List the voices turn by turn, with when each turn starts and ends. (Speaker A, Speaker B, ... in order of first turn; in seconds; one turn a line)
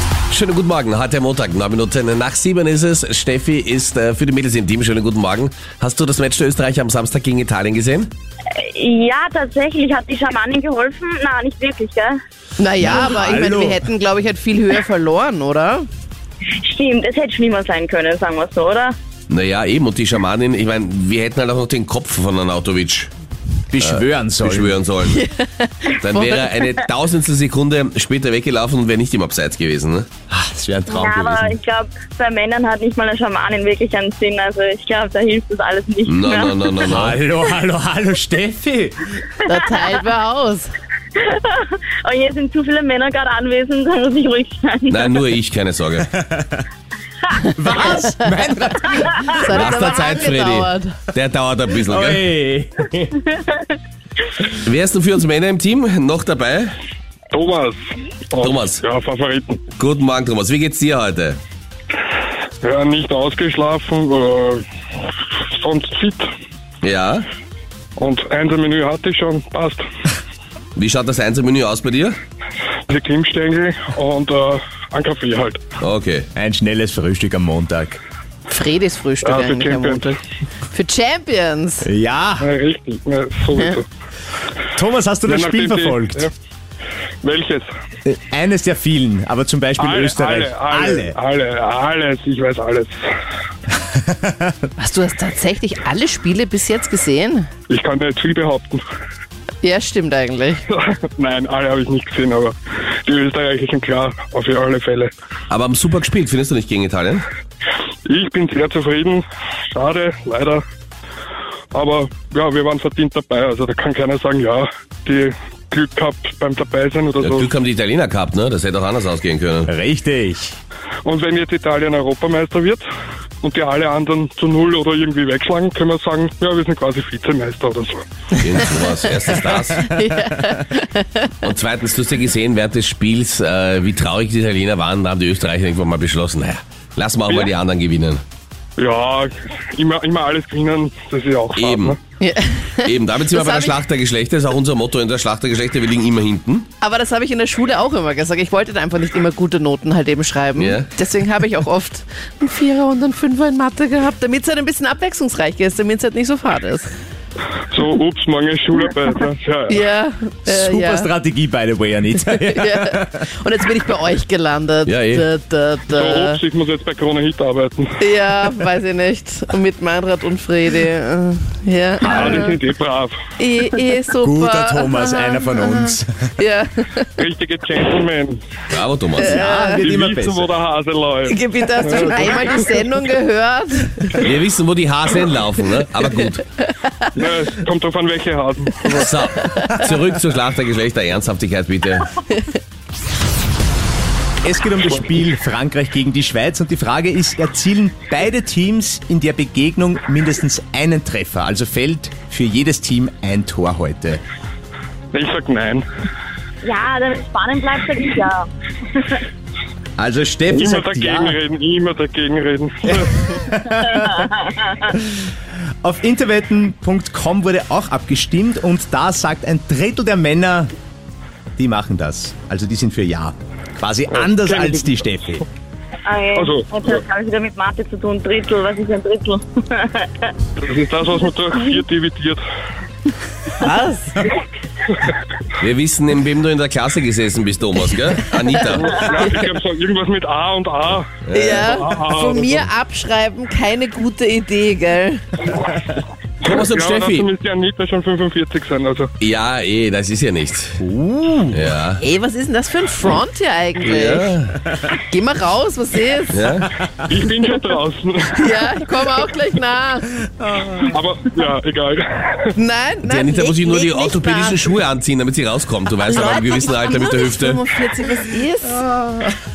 Speaker A: 0.3-8.1
Speaker B: 8.6-12.2
Speaker C: 12.6-15.8
Speaker D: 12.8-13.8
Speaker B: 16.6-18.9
Speaker A: 19.3-23.1
Speaker D: 23.7-24.8
Speaker A: 23.8-25.2
Speaker C: 25.1-26.6
Speaker A: 26.0-30.1
Speaker D: 30.3-31.5
Speaker B: 30.9-36.9
Speaker A: 36.1-37.2
Speaker D: 36.9-39.1
Speaker C: 39.4-40.7
Speaker B: 41.1-45.3
Speaker A: 44.9-46.1
Speaker D: 46.1-46.6
Speaker D: 47.4-49.6
Speaker C: 49.3-50.9
Speaker A: 49.5-52.2
Speaker D: 51.9-53.2
Speaker A: 54.6-56.7
Speaker E: 57.3-59.6
Speaker A: 58.4-58.8
Speaker A: 59.8-61.4
Speaker E: 62.6-64.6
Speaker E: 65.2-66.3
Speaker A: 66.8-67.3
Speaker E: 68.0-69.8
Speaker A: 70.8-72.2
Speaker E: 72.9-75.6
Speaker A: 75.8-76.3
Speaker D: 76.3-78.0
Speaker C: 78.5-80.2
Speaker E: 79.2-80.1
Speaker C: 80.7-81.9
Speaker D: 81.8-82.5
Speaker E: 82.4-83.8
Speaker D: 84.7-86.3
Speaker E: 85.2-86.3
Speaker E: 87.2-87.7
Speaker D: 88.0-91.2
Speaker E: 89.8-93.1
Speaker D: 93.9-94.5
Speaker C: 94.8-97.5
Speaker E: 97.7-98.8
Speaker C: 99.6-100.6
Speaker E: 100.7-102.5
Speaker E: 103.0-105.1
Speaker A: 105.5-107.2
Speaker E: 108.0-110.6
Speaker E: 111.7-117.5
Speaker A: 117.2-119.7
Speaker D: 119.7-120.5
Speaker E: 121.0-122.8
Speaker E: 123.4-128.0
Speaker A: 128.3-129.9
Speaker C: 129.7-131.4
Speaker A: 131.4-138.2
Speaker E: 137.2-137.5
Speaker E: 138.8-142.0
Speaker A: 141.5-142.0
Speaker C: 142.2-143.7
Speaker A: 142.8-146.7
Speaker C: 146.8-156.9
Speaker A: 150.6-150.9
Speaker E: 157.7-159.8
Speaker C: 159.7-161.1
Speaker D: 160.4-163.3
Speaker C: 162.2-166.4
Speaker A: 164.8-165.2
Speaker E: 165.9-168.0
Speaker C: 168.0-172.6
Speaker D: 172.0-172.6
Speaker E: 172.0-173.2
Speaker C: 173.4-177.2
Speaker D: 174.2-176.3
Speaker E: 177.2-178.4
Speaker A: 178.7-179.4
Speaker C: 179.2-179.9
Speaker D: 179.2-180.5
Speaker E: 179.8-182.6
Speaker C: 181.3-184.3
Speaker A: 184.2-186.4
Speaker C: 186.7-187.1
Speaker E: 187.1-189.1
Speaker A: 188.9-192.2
Speaker C: 189.5-189.8
Speaker D: 194.4-204.2
Speaker E: 205.1-205.8
Speaker B: 206.6-209.2
Speaker D: 210.0-211.4
Speaker E: 210.5-213.1
Speaker D: 212.8-214.3
Speaker B: 214.1-214.7
Speaker D: 215.8-220.7
Speaker D: 221.6-225.4
Speaker E: 224.1-224.9
Speaker B: 226.1-230.3
Speaker E: 226.3-227.0
Speaker E: 230.6-232.4
Speaker B: 231.2-231.8
Speaker C: 233.5-234.3
Speaker A: 235.6-239.3
Speaker C: 238.5-239.3
Speaker E: 238.8-242.7
Speaker A: 241.2-241.8
Speaker C: 241.3-245.4
Speaker A: 246.4-247.3
Speaker E: 246.4-249.1
Speaker A: 249.2-250.8
Speaker D: 250.8-251.7
Speaker A: 251.5-252.0
Speaker C: 252.0-254.3
Speaker A: 253.8-254.6
Speaker C: 254.9-256.5
Speaker A: 256.3-256.7
Speaker E: 257.1-258.5
Speaker C: 258.3-260.1
Speaker D: 260.4-260.9
Speaker E: 260.8-262.5
Speaker C: 262.6-264.6
Speaker A: 263.0-267.6
Speaker C: 266.1-268.8
Speaker D: 268.7-269.4